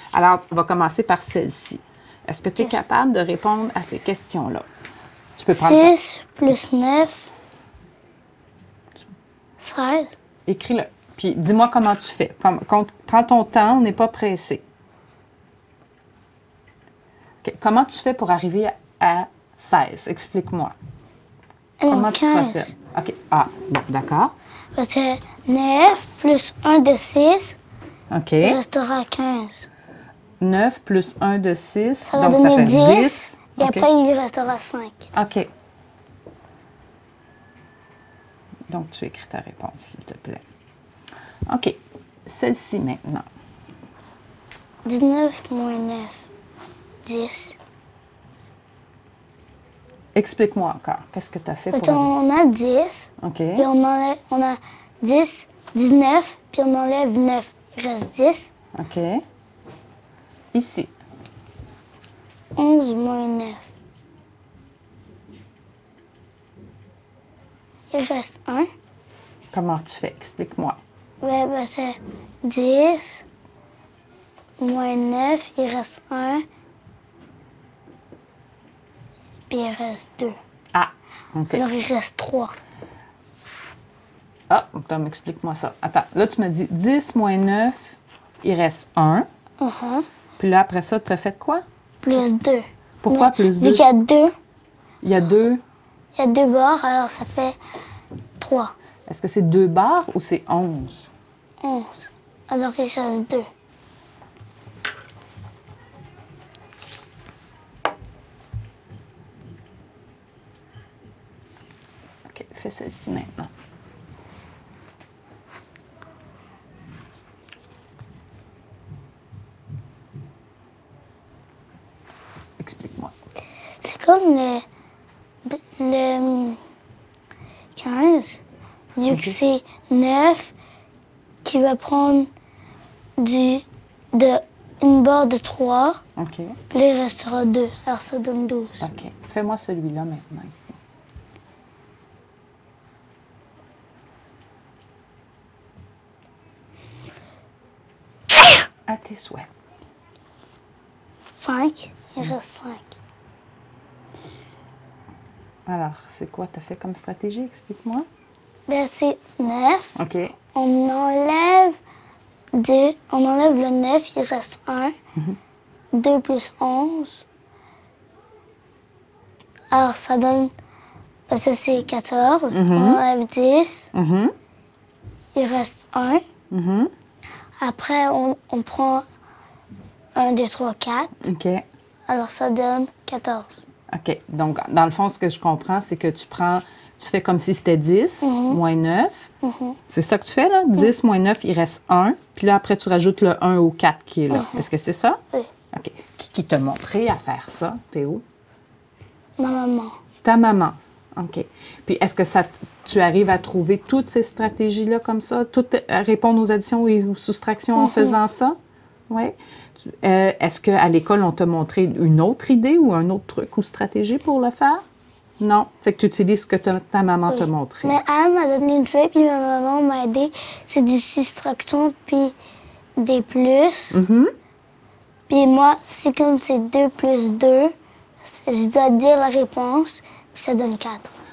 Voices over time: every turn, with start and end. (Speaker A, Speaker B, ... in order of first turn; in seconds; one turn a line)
Speaker A: 0.1-4.7
Speaker A: 5.4-5.9
Speaker B: 5.5-7.3
Speaker B: 9.6-10.2
Speaker A: 10.5-14.6
Speaker A: 17.4-20.7
Speaker B: 21.8-22.7
Speaker A: 21.9-24.3
Speaker B: 24.8-27.6
Speaker A: 28.1-28.6
Speaker B: 28.4-29.7
Speaker A: 30.4-33.9
Speaker B: 32.1-35.1
Speaker A: 35.1-35.5
Speaker A: 38.7-40.4
Speaker A: 41.5-43.3
Speaker B: 44.9-46.3
Speaker B: 47.0-47.6
Speaker A: 50.1-52.1
Speaker B: 51.7-58.5
Speaker A: 53.2-53.7
Speaker A: 58.8-59.2
Speaker A: 60.5-60.9
Speaker B: 62.6-63.7
Speaker B: 67.9-68.7
Speaker A: 69.5-70.8
Speaker B: 71.2-73.2
Speaker B: 74.6-76.5
Speaker B: 79.5-80.4
Speaker A: 80.7-81.7
Speaker B: 81.5-82.5
Speaker A: 84.5-89.3
Speaker B: 89.6-90.1
Speaker A: 90.4-92.2
Speaker B: 92.0-94.3
Speaker A: 93.0-93.8
Speaker A: 95.0-95.6
Speaker B: 96.2-97.6
Speaker B: 98.4-98.7
Speaker A: 99.1-101.1
Speaker B: 101.6-103.5
Speaker A: 112.3-113.5
Speaker A: 122.6-123.1
Speaker B: 123.8-124.7
Speaker B: 125.5-126.6
Speaker B: 127.8-128.4
Speaker B: 129.0-130.5
Speaker A: 129.1-129.4
Speaker B: 131.4-132.3
Speaker B: 133.2-136.0
Speaker A: 136.2-136.6
Speaker B: 136.7-138.9
Speaker A: 138.8-140.8
Speaker A: 148.9-149.5
Speaker B: 151.4-152.9
Speaker A: 155.7-158.1
Speaker B: 158.7-160.0
Speaker A: 160.0-160.3
Speaker B: 160.5-161.8
Speaker B: 162.6-164.9
Speaker B: 165.9-167.2
Speaker B: 169.7-170.5
Speaker B: 171.3-173.9
Speaker A: 172.5-173.0
Speaker A: 173.9-174.3
Speaker B: 175.3-176.2
Speaker A: 176.5-176.9
Speaker B: 177.6-179.0
Speaker B: 180.2-181.3
Speaker A: 181.2-181.6
Speaker B: 182.1-183.7
Speaker A: 183.9-189.3
Speaker B: 188.2-188.6
Speaker B: 189.4-189.8
Speaker A: 189.9-195.2
Speaker B: 194.3-194.7
Speaker A: 195.7-198.2
Speaker B: 199.4-200.0
Speaker A: 200.2-208.6
Speaker B: 207.8-208.2
Speaker A: 209.1-214.8
Speaker A: 215.4-218.0
Speaker B: 217.3-222.4
Speaker B: 223.0-224.0
Speaker A: 223.9-224.3
Speaker B: 225.3-227.7
Speaker B: 228.3-231.2